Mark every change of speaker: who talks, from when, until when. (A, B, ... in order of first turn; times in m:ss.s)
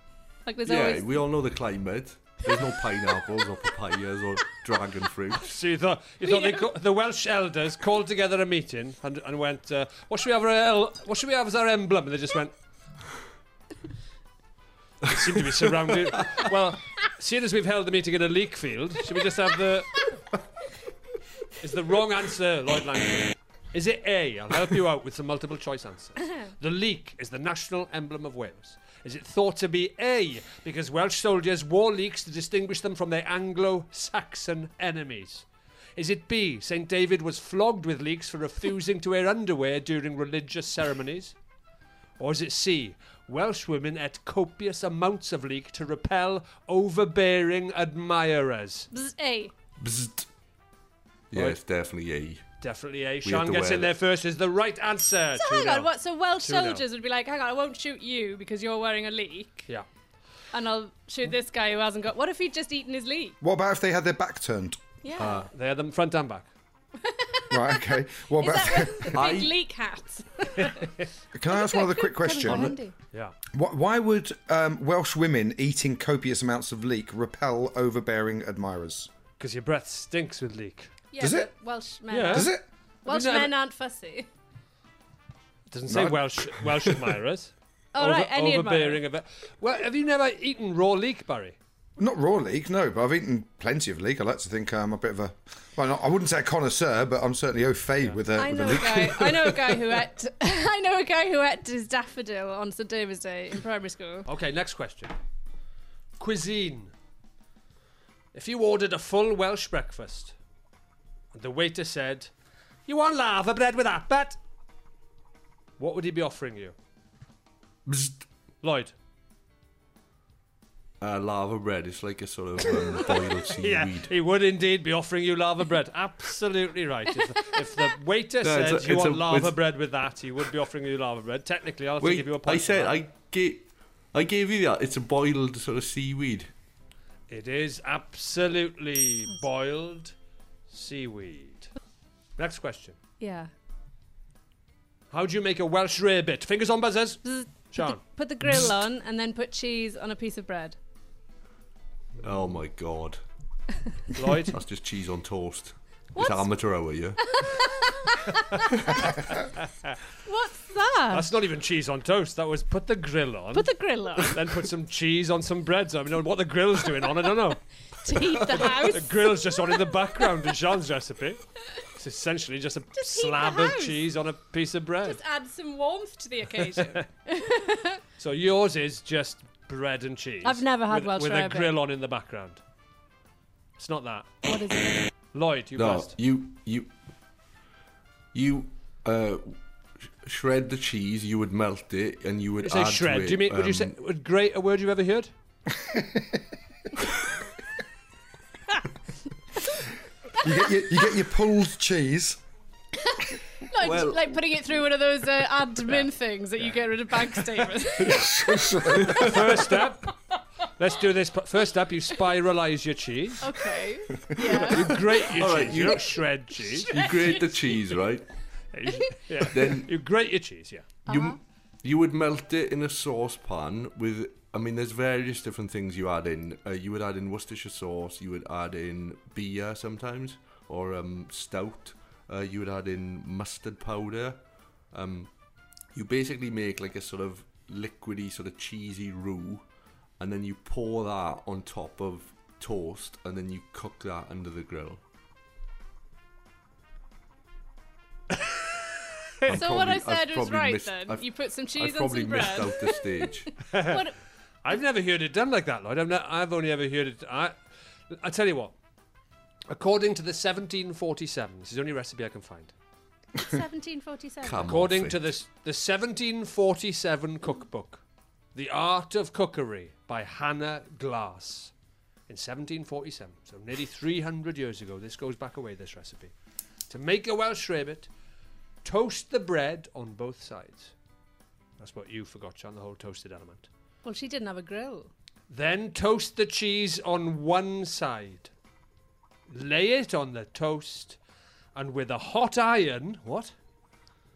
0:00.4-0:01.2 A
0:00.6-0:05.5 B
0:05.4-0:12.5 C
0:06.2-0:06.6 A
0:15.0-0:20.0 C
0:21.6-0:41.3 C
0:42.2-0:48.9 C
0:48.9-0:49.5 A
0:49.8-0:50.3 B
0:51.3-0:52.4 B
0:51.3-0:51.6 C
0:52.6-0:56.8 C
0:53.2-0:53.9 B
0:55.4-0:59.7 A
1:00.5-1:03.4 A
1:03.4-1:04.8 D
1:05.0-1:05.5 A
1:05.2-1:05.5 B
1:05.3-1:06.5 C
1:07.0-1:10.9 A
1:07.5-1:09.2 D
1:09.1-1:09.6 B
1:11.3-1:12.7 D
1:11.5-1:12.9 A
1:12.4-1:12.8 B
1:13.5-1:19.1 D
1:19.4-1:20.9 C
1:21.1-1:22.5 A
1:21.2-1:21.5 D
1:22.1-1:22.5 C
1:22.2-1:22.6 D
1:23.0-1:23.5 C
1:23.0-1:24.3 A
1:25.7-1:31.6 C
1:25.9-1:26.7 D
1:27.9-1:29.0 A
1:32.0-1:39.7 D
1:38.4-1:44.2 A
1:44.2-1:45.2 C
1:46.2-1:46.9 C
1:48.3-1:50.4 C
1:51.3-1:52.3 C
1:52.9-1:54.4 C
1:55.8-1:56.7 C
1:57.8-1:58.2 B
1:58.6-1:58.9 C
2:01.0-2:04.1 B
2:03.3-2:13.0 C
2:08.4-2:09.6 B
2:12.0-2:16.5 B
2:17.3-2:20.1 C
2:20.7-2:21.7 C
2:22.4-2:23.0 C
2:23.2-2:23.5 A
2:25.1-2:28.6 C
2:27.2-2:30.8 A
2:32.2-2:32.6 C
2:32.2-2:33.2 B
2:34.1-2:34.6 C
2:34.5-2:37.4 B
2:36.2-2:36.5 A
2:37.3-2:38.6 A
2:39.6-2:39.9 C
2:40.2-2:41.3 A
2:41.1-2:47.6 C
2:43.5-2:44.4 A
2:48.0-2:49.6 A
2:48.5-2:55.2 C
2:53.0-2:54.0 A
2:55.0-2:58.0 A
2:56.6-2:57.0 C
2:58.2-3:02.6 C
3:00.4-3:01.8 A
3:03.8-3:04.3 C
3:04.4-3:05.1 A
3:05.3-3:06.1 C
3:05.7-3:06.9 B
3:08.3-3:09.6 B
3:10.2-3:13.9 B
3:12.6-3:15.3 C
3:15.9-3:16.2 D
3:20.4-3:22.4 D
3:23.0-3:28.4 A
3:23.8-3:24.4 B
3:28.0-3:29.3 D
3:28.9-3:29.7 B
3:29.2-3:30.1 C
3:30.8-3:33.5 C
3:33.4-3:35.4 A
3:34.6-3:37.1 C
3:35.3-3:36.2 B
3:36.6-3:37.8 A
3:36.9-3:38.3 B
3:38.7-3:41.0 C
3:39.0-3:39.5 A
3:39.5-3:39.9 B
3:41.1-3:41.4 A
3:41.1-3:54.4 B
3:54.9-3:55.3 B
3:55.9-3:59.6 B
4:00.2-4:05.0 B
4:09.4-4:13.6 B
4:09.6-4:14.2 A
4:13.7-4:14.0 C
4:14.6-4:17.6 C
4:18.1-4:18.7 C
4:19.7-4:22.7 C
4:23.4-4:24.8 A
4:24.4-4:25.3 B
4:24.6-4:28.0 C
4:28.5-4:31.7 C
4:32.3-4:36.3 C
4:36.9-4:38.1 C
4:38.8-4:40.9 C
4:41.8-4:43.7 C
4:44.0-4:45.1 A
4:45.5-4:48.5 C
4:49.5-4:51.2 C
4:51.7-4:53.5 C